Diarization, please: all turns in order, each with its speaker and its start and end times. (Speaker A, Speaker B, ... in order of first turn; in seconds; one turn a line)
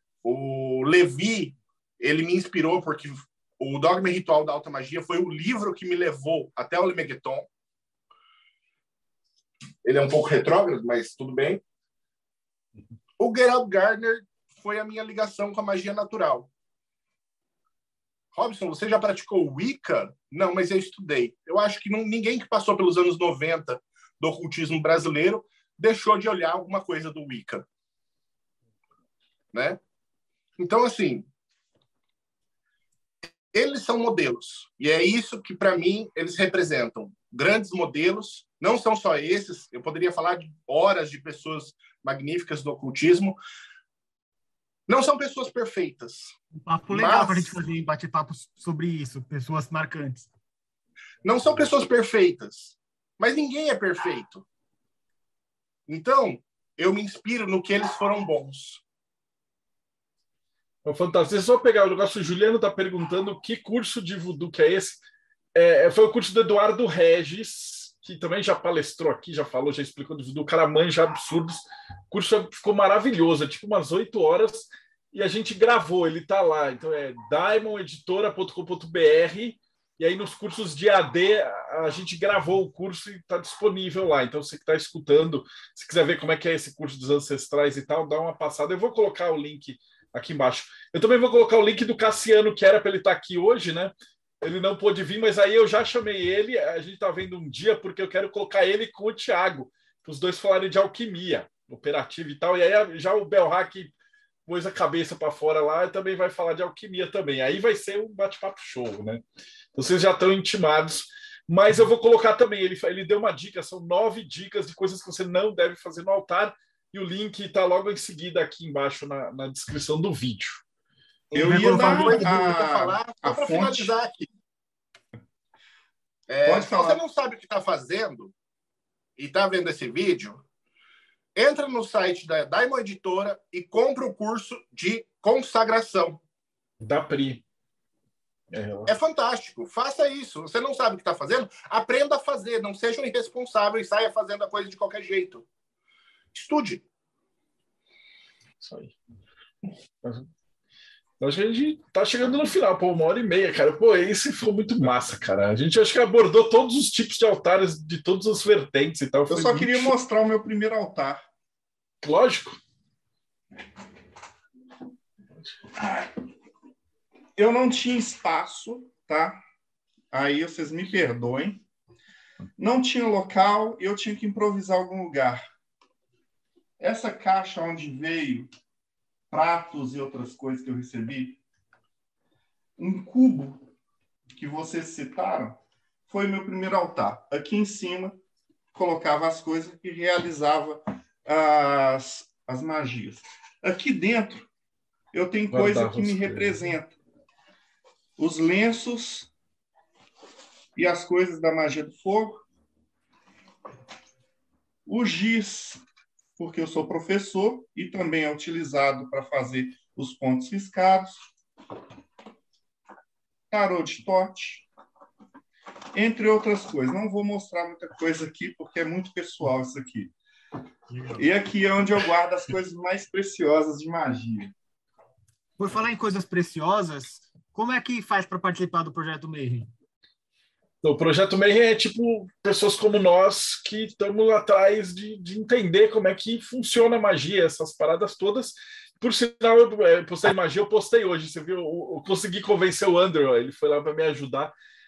Speaker A: 0.2-7.5
Speaker A: 9.8-11.6
Speaker A: 13.2-16.5
Speaker A: 18.3-27.6
Speaker A: 29.5-29.8
Speaker A: 30.6-31.3
Speaker A: 33.5-43.4
Speaker A: 44.9-46.3
Speaker B: 46.5-50.3
Speaker A: 46.9-47.5
Speaker A: 51.2-54.4
Speaker A: 55.9-58.8
Speaker C: 60.8-65.0
Speaker C: 65.5-103.9
Speaker C: 104.5-109.2
Speaker C: 109.7-120.6
Speaker D: 121.3-123.9
Speaker A: 121.3-124.3
Speaker B: 121.3-122.5
Speaker A: 126.3-128.3
Speaker D: 126.4-127.0
Speaker A: 129.2-130.4
Speaker A: 131.3-136.2
Speaker C: 136.8-137.4
Speaker C: 138.5-138.9
Speaker A: 138.9-145.4
Speaker A: 146.3-146.8
Speaker C: 148.6-148.9
Speaker C: 150.0-150.3
Speaker C: 151.2-159.9
Speaker D: 159.3-161.2
Speaker C: 162.0-162.6
Speaker D: 167.3-169.4
Speaker D: 170.1-171.6
Speaker D: 172.6-175.4
Speaker D: 176.8-178.5
Speaker D: 179.3-181.4
Speaker D: 182.8-183.7
Speaker D: 184.3-188.2
Speaker D: 188.7-194.5
Speaker D: 195.1-196.9
Speaker C: 195.5-196.5
Speaker D: 198.2-199.3
Speaker D: 200.8-202.4
Speaker D: 204.8-205.8
Speaker D: 206.4-211.2
Speaker D: 213.5-214.7
Speaker D: 215.9-220.1
Speaker B: 220.9-221.2
Speaker D: 221.1-224.5
Speaker B: 225.6-229.7
Speaker C: 230.8-244.5